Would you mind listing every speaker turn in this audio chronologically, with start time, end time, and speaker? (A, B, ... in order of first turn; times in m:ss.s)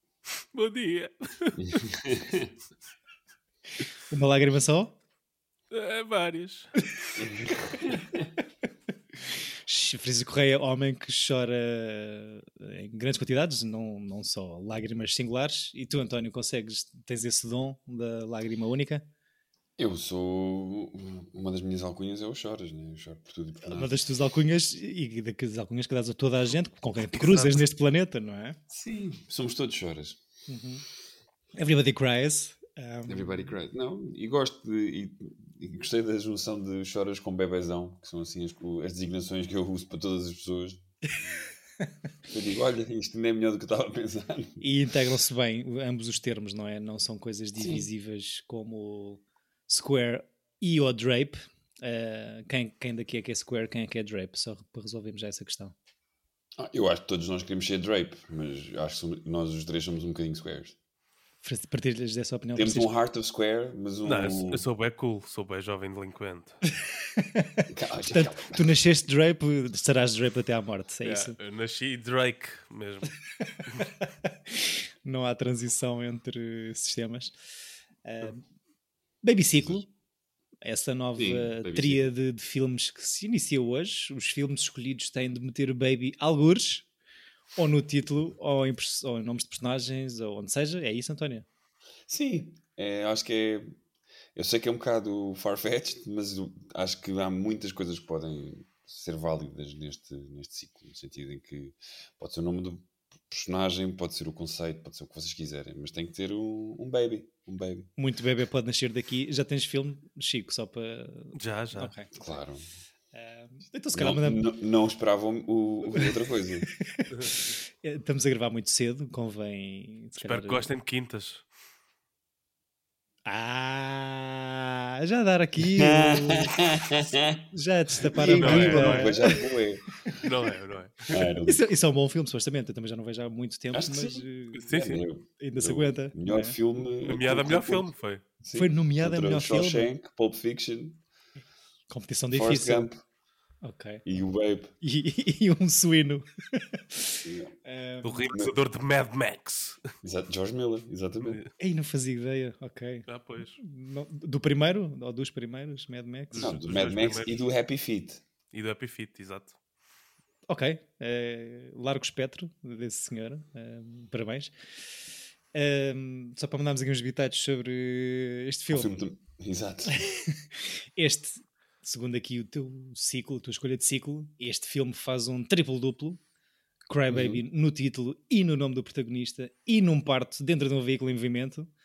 0:00.5-0:01.6 A
0:01.6-0:02.5 B
0:04.1-0:05.0 C
0:05.7-0:06.7 A
0:07.2-0:08.3 B
0:09.7-0:19.1 C
0:19.8-0:23.9 B
0:23.7-0:28.6 C
0:27.1-0:27.6 A
0:28.7-0:30.2 B
0:30.5-0:30.9 C
0:31.6-0:33.5 C
0:33.1-0:40.8 B
0:42.3-0:44.6 B
0:44.6-0:55.8 C
0:47.6-0:47.9 B
0:56.6-1:00.8 B
1:01.4-1:02.9 C
1:02.6-1:04.7 B
1:04.0-1:06.6 A
1:07.0-1:11.4 C
1:07.7-1:08.6 B
1:11.0-1:13.2 A
1:13.4-1:17.3 C
1:18.0-1:18.4 C
1:19.2-1:19.9 C
1:20.6-1:26.9 C
1:21.2-1:22.1 B
1:27.6-1:31.5 C
1:32.1-1:33.8 B
1:34.4-1:47.9 B
1:48.0-1:52.1 C
1:51.4-1:51.9 A
1:52.1-1:52.7 B
1:53.1-1:54.4 C
1:53.9-1:56.7 B
1:56.8-2:00.7 C
2:00.2-2:01.4 A
2:03.3-2:06.8 C
2:05.6-2:07.4 B
2:07.5-2:09.4 C
2:08.0-2:09.8 B
2:08.2-2:09.4 A
2:10.2-2:11.3 A
2:11.1-2:11.6 B
2:11.5-2:14.7 C
2:13.7-2:17.9 B
2:14.6-2:15.0 A
2:15.4-2:16.6 C
2:17.0-2:18.2 A
2:18.4-2:21.0 B
2:18.5-2:19.9 C
2:21.9-2:22.9 C
2:22.3-2:23.0 B
2:23.6-2:24.0 C
2:24.0-2:24.7 B
2:24.8-2:28.3 C
2:27.2-2:27.5 B
2:28.0-2:29.8 A
2:30.0-2:31.4 B
2:31.2-2:31.5 A
2:31.6-2:36.5 C
2:33.1-2:33.6 A
2:36.3-2:37.4 A
2:36.3-2:38.2 B
2:38.5-2:39.6 A
2:40.5-2:44.5 C
2:45.5-2:49.0 C
2:48.7-2:50.0 B
2:49.9-2:56.2 C
2:56.9-3:01.7 C
2:57.1-2:57.4 B